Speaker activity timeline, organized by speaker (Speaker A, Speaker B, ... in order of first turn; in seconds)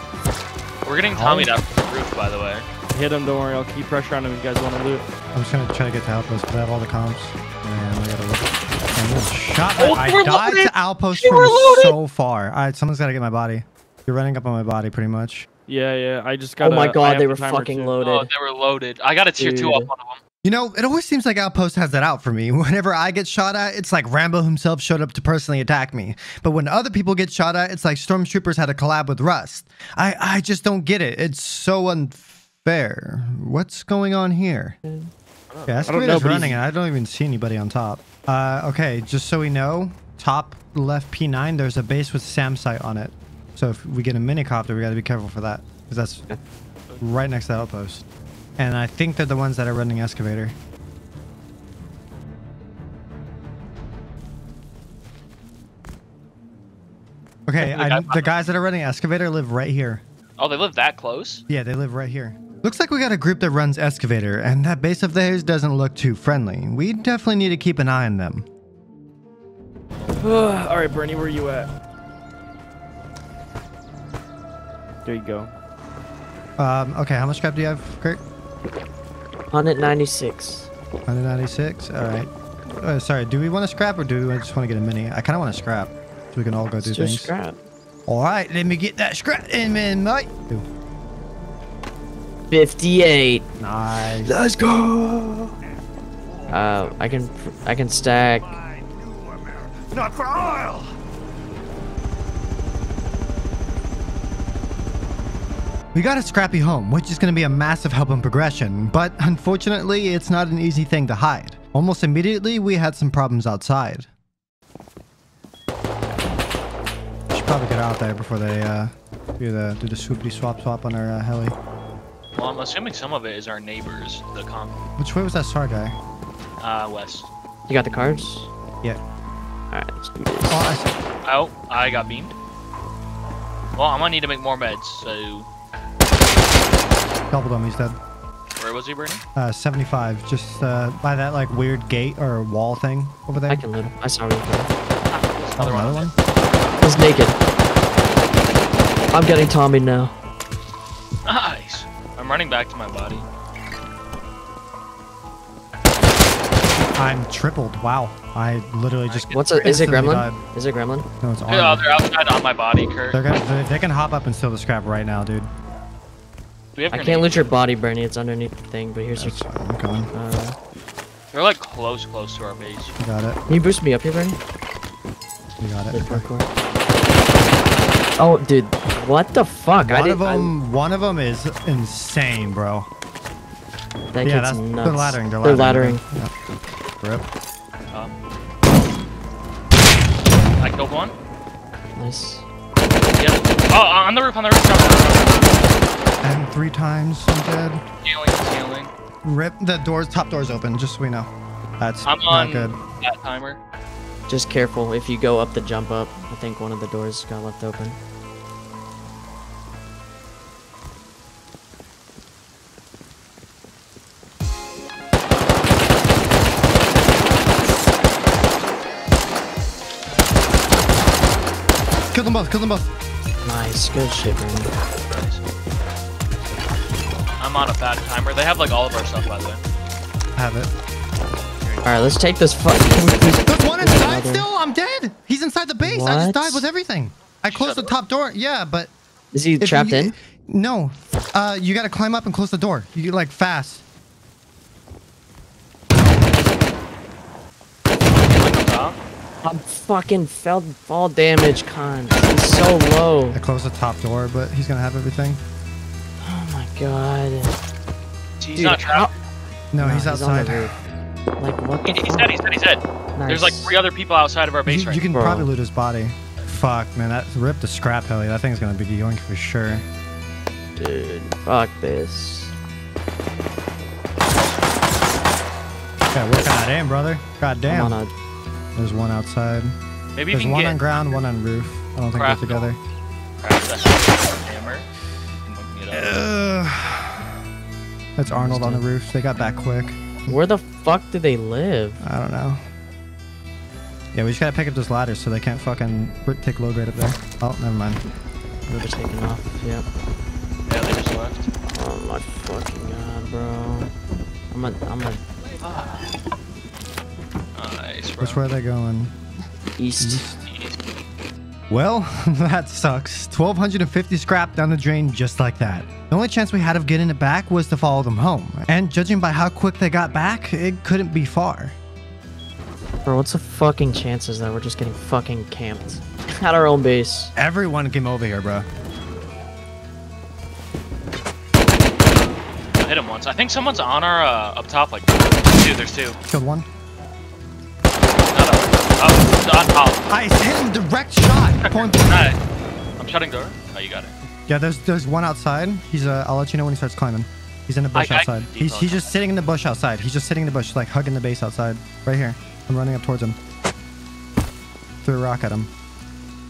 Speaker A: 0.8-2.7, 9.8-12.0, 18.0-20.2, 35.5-36.0, 57.6-58.4, 60.4-61.4, 122.3-124.8, 126.6-127.3, 131.2-132.3, 133.8-135.5, 138.6-139.2, 145.1-146.1, 151.3-153.3, 159.1-159.8, 161.5-163.2, 166.8-167.5, 171.3-172.9, 190.6-191.1, 193.2-195.7, 198.0-198.9, 202.1-203.6, 225.1-225.4, 227.4-229.6, 237.5-237.9, 248.3-249.0, 258.4-259.1, 261.8-265.1, 280.2-280.9, 282.2-282.6, 283.4-284.9, 285.5-286.2, 300.7-301.5, 305.6-306.0, 307.6-308.4, 310.5-310.8, 332.8-336.2, 338.2-340.0, 341.6-342.4, 343.0-344.1, 347.9-349.1
Speaker B: 1.1-1.5, 5.3-15.5, 20.4-34.8, 35.7-46.3, 47.0-48.0, 48.6-50.6, 57.5-60.0, 61.5-68.5, 76.6-78.2, 81.1-87.3, 88.1-90.7, 93.6-94.4, 98.6-101.0, 105.9-114.1, 117.3-121.5, 125.0-126.0, 130.5-130.9, 137.3-138.0, 139.3-143.6, 145.6-146.2, 157.0-160.4, 161.2-161.8, 163.1-165.5, 169.2-170.1, 173.0-173.4, 175.6-176.2, 179.8-182.9, 184.2-186.3, 196.2-197.8, 199.2-202.8, 222.1-222.9, 230.4-230.7, 233.0-238.9, 239.6-243.8, 253.3-255.4, 259.7-260.8, 264.6-269.9, 276.1-278.0, 278.8-279.8, 280.3-282.8, 285.9-287.3, 288.2-290.4, 292.0-292.6, 294.1-298.0, 308.2-309.1, 310.0-310.4, 311.7-321.8, 327.4-328.7, 336.3-336.7, 340.1-342.3, 344.5-353.4, 355.0-355.7
Speaker C: 2.9-5.1, 15.7-17.9, 35.9-36.6, 70.2-71.7, 75.0-75.5
Speaker D: 16.6-18.3, 19.4-19.9, 34.9-35.1, 79.5-80.7, 86.8-87.6, 92.5-93.5, 94.3-95.5, 96.5-98.5, 127.7-128.5, 129.7-130.7, 143.5-144.7, 146.8-147.4, 149.1-150.1, 159.3-161.1, 166.9-169.4, 170.1-170.6, 173.5-174.4, 175.9-176.5, 178.2-180.5, 184.1-186.0, 192.0-192.4, 204.3-208.0, 223.4-224.8, 231.8-234.4, 235.8-236.6, 239.3-240.1, 249.4-253.4, 256.2-257.6, 258.6-259.1, 259.8-260.8, 261.4-262.3, 263.2-263.8, 265.1-265.5, 270.8-272.5, 277.7-278.1, 288.4-288.8, 290.3-292.0, 298.7-299.9, 301.7-303.9, 304.5-305.2, 309.8-310.2, 323.1-327.3